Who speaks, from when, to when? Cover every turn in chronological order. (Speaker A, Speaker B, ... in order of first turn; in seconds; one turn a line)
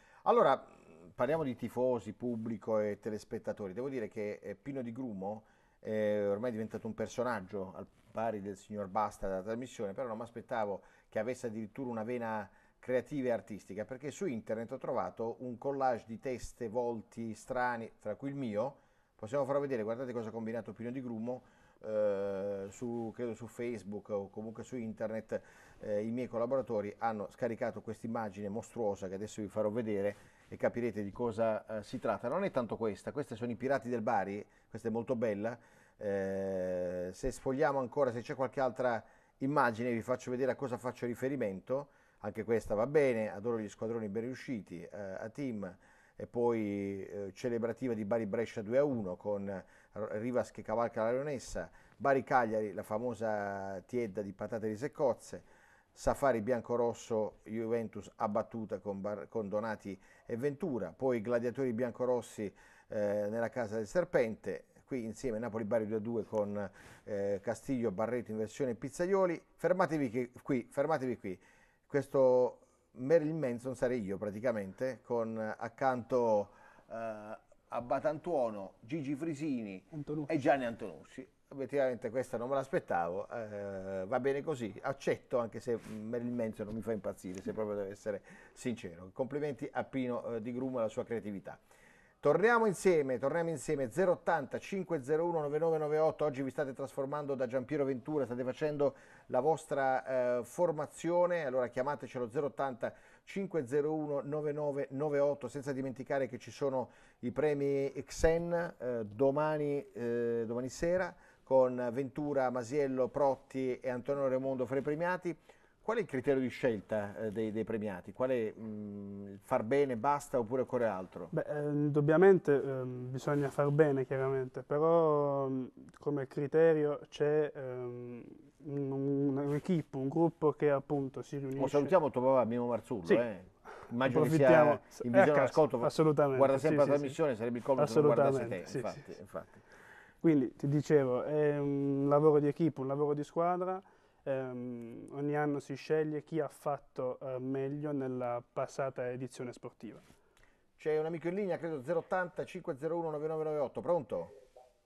Speaker A: 0.2-91.6
Speaker B: 79.9-80.5
Speaker A: 92.2-121.3
Speaker B: 121.3-132.0
Speaker A: 131.6-139.7
Speaker B: 133.0-137.2
Speaker B: 137.7-139.2
Speaker B: 140.2-150.0
Speaker A: 150.8-154.3